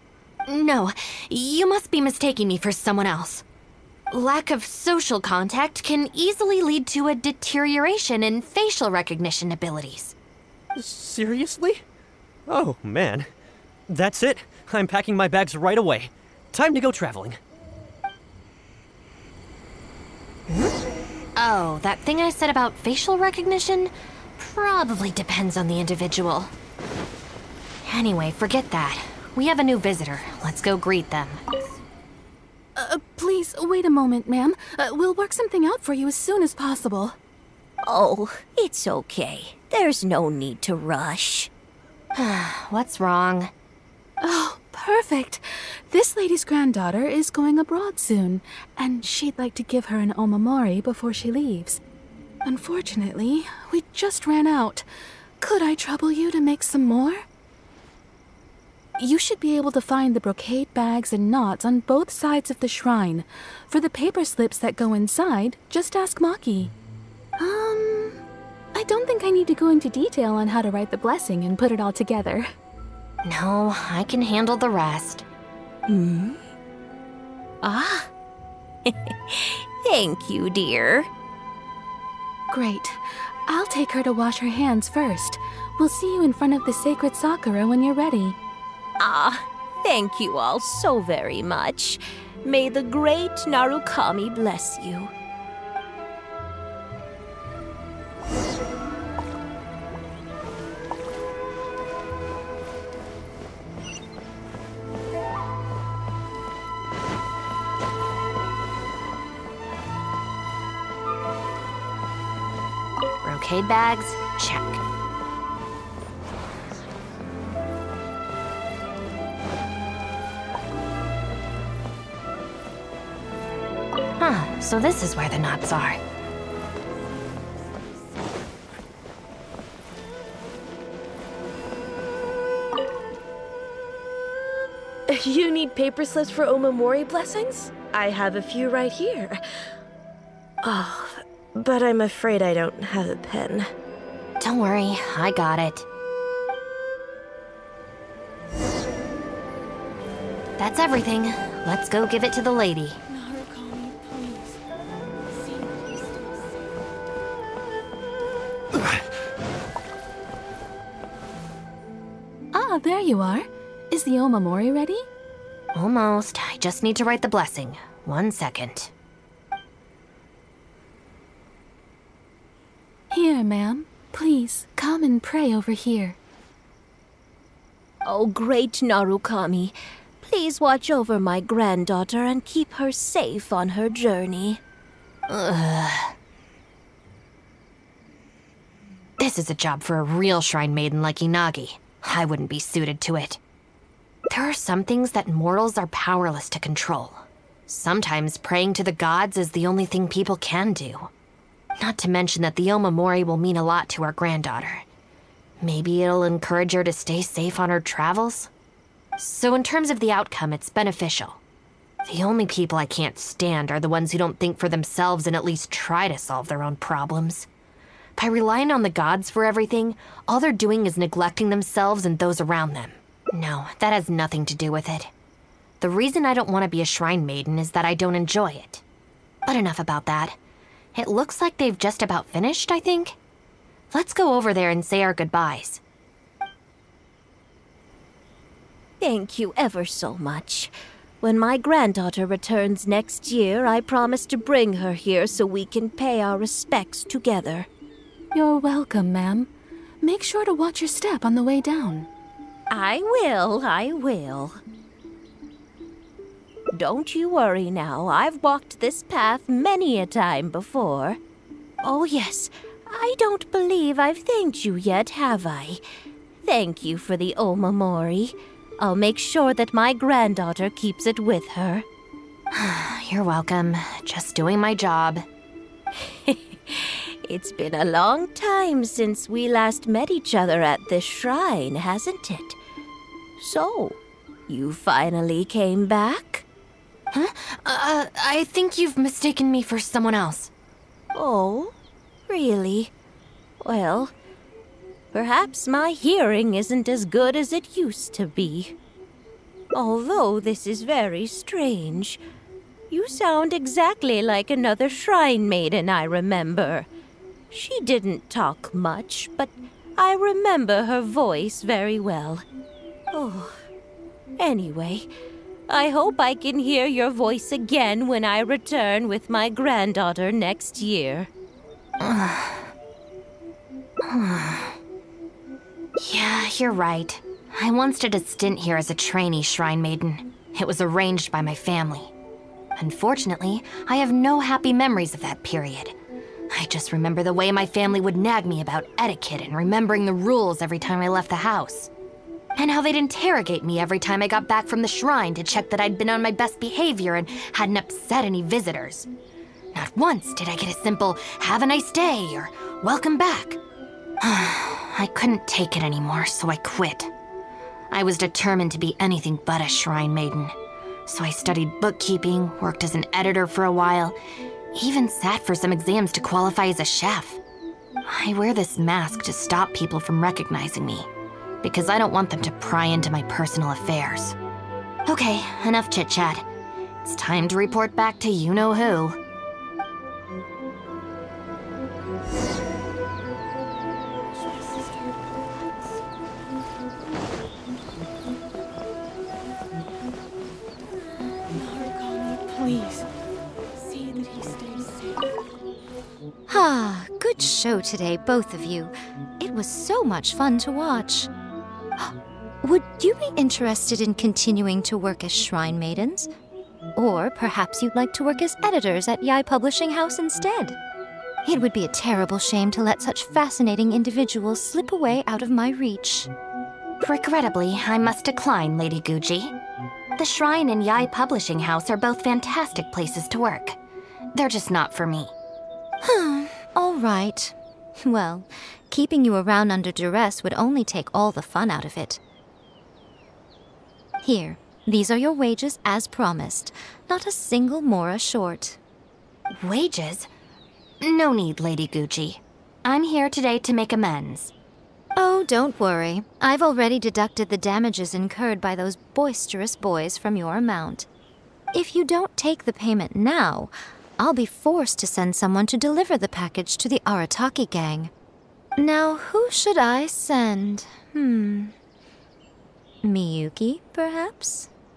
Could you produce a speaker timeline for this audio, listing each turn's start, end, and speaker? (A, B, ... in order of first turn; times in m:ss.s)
0:00.5-0:03.4 A
0:04.1-0:10.2 A
0:10.8-0:11.8 B
0:12.5-0:13.3 B
0:13.9-0:17.4 B
0:20.5-0:20.7 A
0:21.4-0:26.5 A
0:27.8-0:31.4 A
0:32.8-0:37.2 C
0:37.8-0:41.5 D
0:42.2-0:43.5 A
0:44.2-0:51.8 C
0:52.4-0:54.9 C
0:55.4-0:57.2 C
0:59.0-1:06.7 C
1:07.4-1:08.2 C
1:08.7-1:12.5 C
1:13.2-1:15.2 A
1:15.9-1:16.4 D
1:17.6-1:18.1 D
1:18.9-1:21.1 D
1:22.5-1:28.4 C
1:29.0-1:35.1 D
1:53.2-1:54.8 A
2:04.2-2:06.0 A
2:15.1-2:19.4 E
2:20.6-2:21.1 E
2:21.6-2:23.6 E
2:24.4-2:25.9 A
2:30.6-2:33.0 A
2:33.1-2:34.6 C
2:35.3-2:36.6 C
2:42.5-2:45.0 C
2:45.7-2:48.9 A
2:53.1-2:56.2 C
2:58.0-3:04.6 D
3:05.3-3:06.1 A
3:09.2-3:13.4 A
3:14.3-3:21.1 A
3:21.8-3:24.8 A
3:25.6-3:28.5 A
3:29.2-3:31.4 A
3:32.0-3:37.5 A
3:38.2-3:45.1 A
3:45.8-3:48.8 A
3:49.5-3:50.4 A
3:51.0-3:53.2 A
3:53.9-3:55.8 A
3:59.0-4:07.7 D
4:08.3-4:09.5 C
4:10.0-4:12.1 C
4:12.7-4:14.6 D
4:16.7-4:21.2 D
4:21.8-4:25.8 D
4:26.4-4:31.9 D
4:32.5-4:35.2 A
4:36.3-4:42.6 D
4:43.4-4:46.4 D
4:47.1-4:50.5 A
4:51.1-4:51.8 D
4:52.3-4:52.9 D
4:53.6-4:54.1 D
4:55.1-4:58.8 D
4:59.7-5:02.2 D
5:02.9-5:06.9 D
5:07.5-5:12.4 D
5:13.1-5:13.6 D
5:14.4-5:15.1 D
5:15.7-5:21.3 D
5:22.0-5:22.7 A
5:24.0-5:24.8 A
5:26.0-5:32.1 A
5:32.8-5:36.0 A
5:36.5-5:41.9 A
5:42.6-5:49.1 A
5:49.7-5:53.6 A
5:54.2-5:57.1 A
5:57.9-6:00.5 A
6:01.1-6:04.2 A
6:04.7-6:07.4 A
6:08.0-6:11.1 A
6:11.6-6:14.4 A
6:15.0-6:16.4 A
6:17.0-6:19.2 A
6:24.4-6:25.2 C
6:31.5-6:33.1 C
6:33.8-6:35.3 C
6:36.5-6:41.3 F
6:42.0-6:46.3 F
6:47.0-6:50.8 F
6:51.4-6:56.3 F
6:57.0-6:59.6 A
7:00.2-7:03.8 A
7:04.3-7:05.3 A
7:06.0-7:12.2 F
7:14.2-7:18.8 F
7:19.5-7:20.3 A
7:21.0-7:24.5 A
7:25.2-7:31.1 F
7:31.7-7:38.1 F
7:38.8-7:41.7 F
7:43.0-7:44.7 F